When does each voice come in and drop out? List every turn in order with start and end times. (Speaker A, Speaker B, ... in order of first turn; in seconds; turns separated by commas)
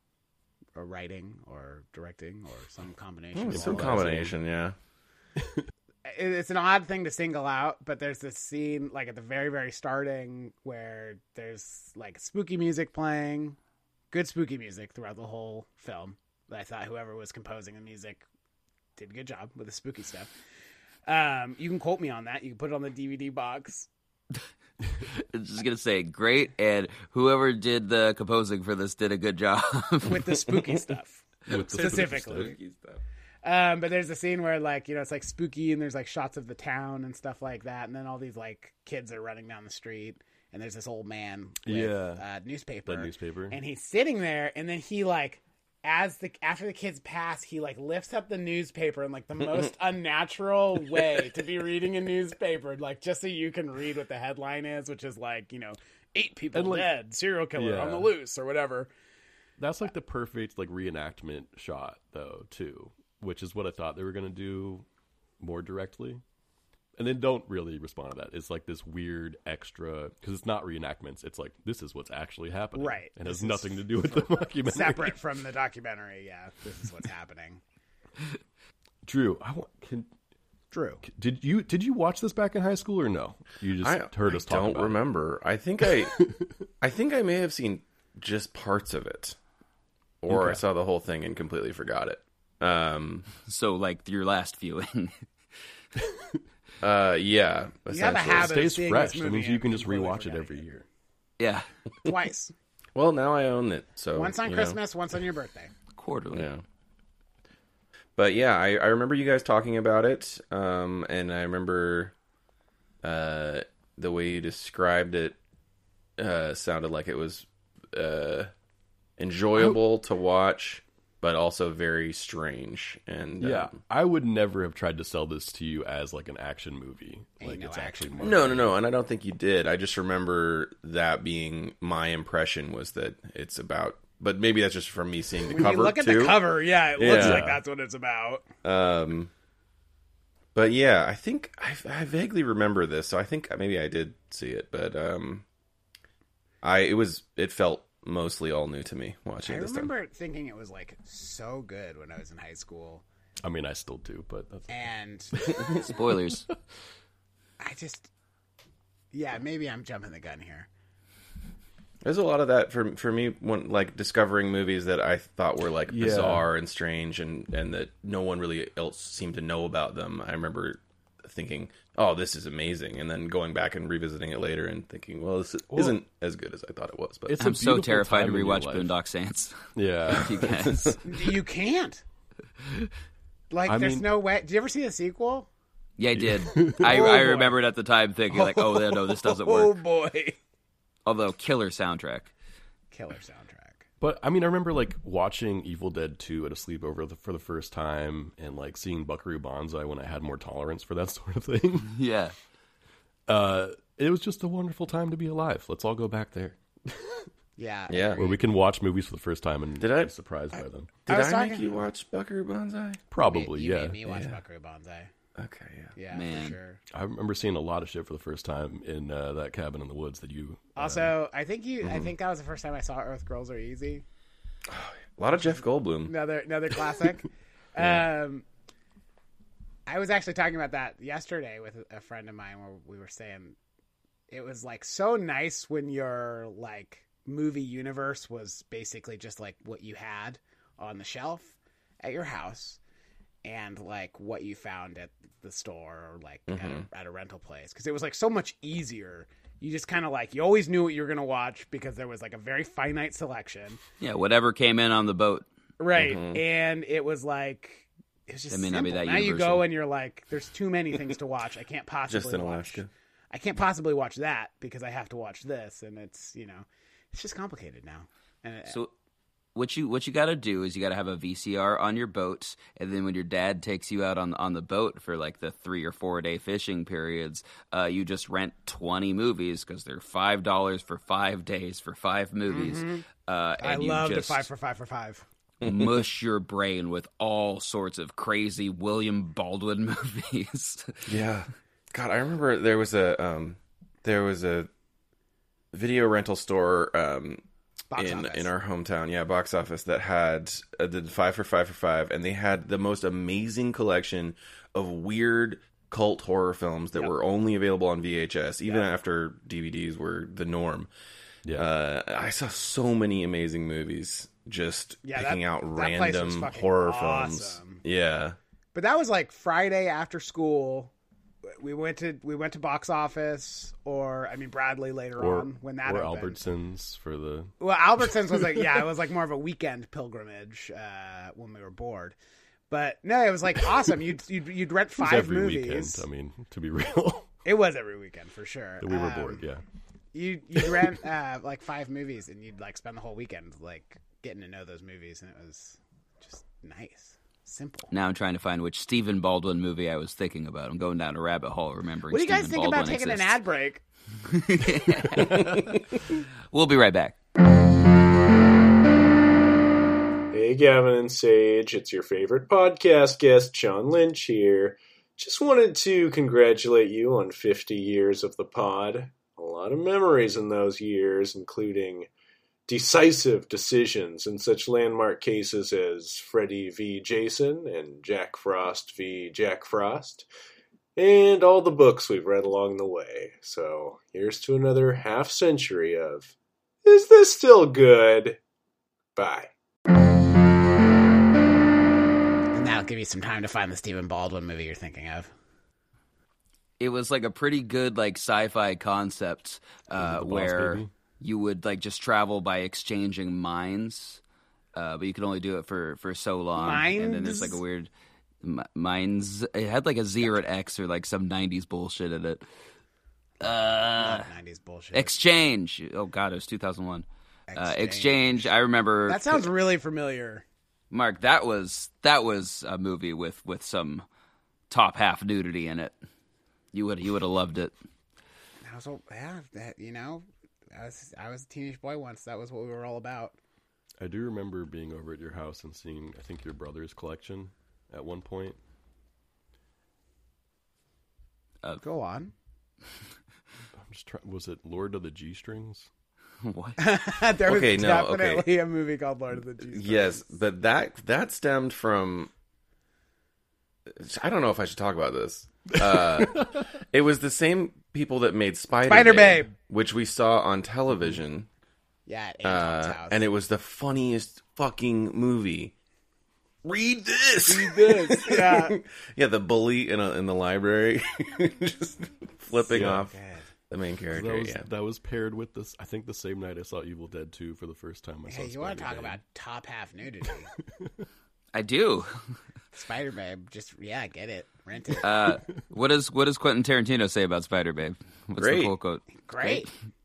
Speaker A: 0.7-4.2, Speaker B: 3.3-4.7, Speaker C: 3.5-4.3, Speaker A: 6.0-13.6, Speaker A: 14.1-18.2, Speaker A: 19.0-20.3, Speaker A: 21.1-23.9, Speaker D: 25.2-30.2, Speaker A: 30.0-32.5, Speaker C: 31.5-32.5, Speaker A: 33.4-58.9, Speaker C: 41.6-42.2, Speaker C: 42.9-43.6, Speaker B: 49.4-49.7, Speaker C: 56.5-56.9, Speaker C: 57.5-58.1, Speaker C: 59.6-64.8, Speaker C: 65.4-66.2, Speaker C: 67.0-75.2, Speaker A: 72.7-77.6, Speaker C: 79.0-80.1, Speaker A: 80.7-81.0, Speaker C: 81.0-85.0, Speaker B: 83.8-86.2, Speaker C: 85.9-86.5, Speaker B: 86.8-89.3, Speaker B: 90.2-93.3, Speaker C: 90.3-90.6, Speaker D: 93.5-95.1, Speaker B: 96.8-98.6, Speaker A: 97.9-100.6, Speaker C: 98.3-100.8, Speaker D: 101.4-101.7, Speaker A: 102.0-102.5, Speaker B: 103.0-104.8, Speaker A: 104.1-105.7, Speaker D: 105.9-106.5, Speaker B: 106.3-106.6, Speaker B: 108.2-112.1, Speaker B: 113.0-115.4, Speaker B: 116.2-118.5, Speaker B: 119.2-123.8, Speaker C: 123.4-128.7, Speaker A: 127.4-128.5, Speaker B: 128.2-136.4, Speaker A: 135.5-138.4, Speaker B: 137.0-137.4, Speaker C: 137.0-137.6, Speaker B: 138.6-139.3, Speaker B: 140.5-145.4, Speaker B: 146.6-149.9, Speaker A: 149.4-153.0, Speaker C: 153.4-154.8, Speaker A: 154.7-155.3, Speaker C: 155.4-155.7, Speaker D: 155.8-156.4, Speaker A: 157.6-158.1, Speaker A: 159.1-160.7, Speaker B: 162.0-177.4, Speaker C: 165.9-166.4, Speaker C: 175.7-176.0, Speaker C: 177.3-178.9, Speaker D: 177.4-181.0, Speaker C: 179.7-180.5, Speaker A: 181.0-182.0, Speaker A: 183.5-185.5, Speaker C: 183.7-184.1, Speaker D: 186.0-189.8, Speaker C: 186.2-187.1, Speaker A: 186.8-187.6, Speaker A: 188.3-190.4, Speaker D: 191.1-192.3, Speaker A: 192.9-193.8, Speaker C: 194.0-201.9, Speaker D: 201.9-202.3, Speaker C: 203.3-207.2, Speaker A: 207.6-208.4, Speaker B: 207.9-208.2, Speaker C: 208.2-210.9, Speaker B: 209.8-213.0, Speaker A: 211.1-211.8, Speaker C: 213.1-214.1, Speaker A: 213.2-215.1, Speaker B: 214.1-214.4, Speaker B: 215.3-215.9, Speaker A: 215.9-216.8, Speaker D: 216.1-216.6, Speaker C: 216.9-221.1, Speaker A: 220.8-224.0, Speaker B: 221.8-222.1, Speaker B: 224.7-226.1, Speaker A: 226.1-228.4, Speaker B: 227.8-228.1, Speaker A: 229.8-233.6, Speaker A: 234.3-242.8, Speaker A: 243.4-253.8, Speaker B: 246.5-246.9, Speaker D: 254.0-255.4, Speaker A: 255.8-268.8, Speaker B: 255.9-256.4, Speaker D: 258.5-259.7, Speaker B: 262.1-262.9, Speaker D: 269.5-284.5, Speaker A: 282.5-283.0, Speaker A: 283.6-285.2, Speaker B: 285.6-286.0, Speaker D: 285.6-291.0, Speaker B: 291.1-294.7, Speaker B: 295.7-297.4, Speaker A: 297.9-298.5, Speaker B: 297.9-310.9, Speaker B: 311.5-318.4, Speaker A: 315.0-317.8, Speaker A: 318.7-320.9, Speaker A: 321.6-326.4, Speaker C: 325.2-327.5, Speaker A: 327.6-332.1, Speaker C: 328.0-328.8, Speaker A: 332.7-336.0, Speaker C: 335.0-337.3, Speaker A: 337.4-339.4, Speaker C: 338.8-339.6, Speaker A: 340.1-347.9, Speaker D: 347.9-353.4, Speaker A: 352.1-353.8, Speaker D: 354.3-355.7, Speaker D: 356.5-357.1, Speaker E: 360.3-372.1, Speaker E: 372.7-380.3, Speaker E: 380.9-388.4, Speaker E: 389.1-389.5, Speaker A: 392.5-395.3, Speaker D: 396.8-404.2, Speaker C: 399.9-400.9, Speaker D: 404.7-407.9, Speaker A: 406.6-407.6, Speaker D: 408.4-412.4, Speaker D: 413.4-414.3, Speaker A: 413.9-415.1, Speaker D: 414.9-419.4, Speaker A: 417.5-418.5, Speaker A: 419.1-420.4, Speaker D: 420.9-424.0, Speaker D: 424.7-425.9, Speaker D: 426.7-427.7, Speaker A: 428.6-433.4, Speaker C: 434.0-438.6, Speaker A: 441.8-442.3, Speaker C: 443.8-445.9, Speaker D: 446.4-446.8, Speaker A: 446.8-450.3, Speaker B: 447.4-448.5, Speaker B: 449.6-452.3, Speaker B: 453.9-461.5, Speaker C: 455.7-456.6, Speaker A: 458.9-459.5, Speaker A: 462.1-463.2, Speaker B: 462.4-465.7, Speaker B: 466.6-473.2, Speaker A: 467.4-468.7, Speaker A: 472.6-473.5, Speaker C: 472.7-473.0, Speaker B: 473.7-474.7, Speaker C: 474.1-479.2, Speaker A: 478.3-480.5, Speaker D: 481.5-482.1, Speaker A: 482.7-485.1, Speaker D: 485.0-489.7, Speaker B: 488.4-488.7, Speaker A: 489.2-489.7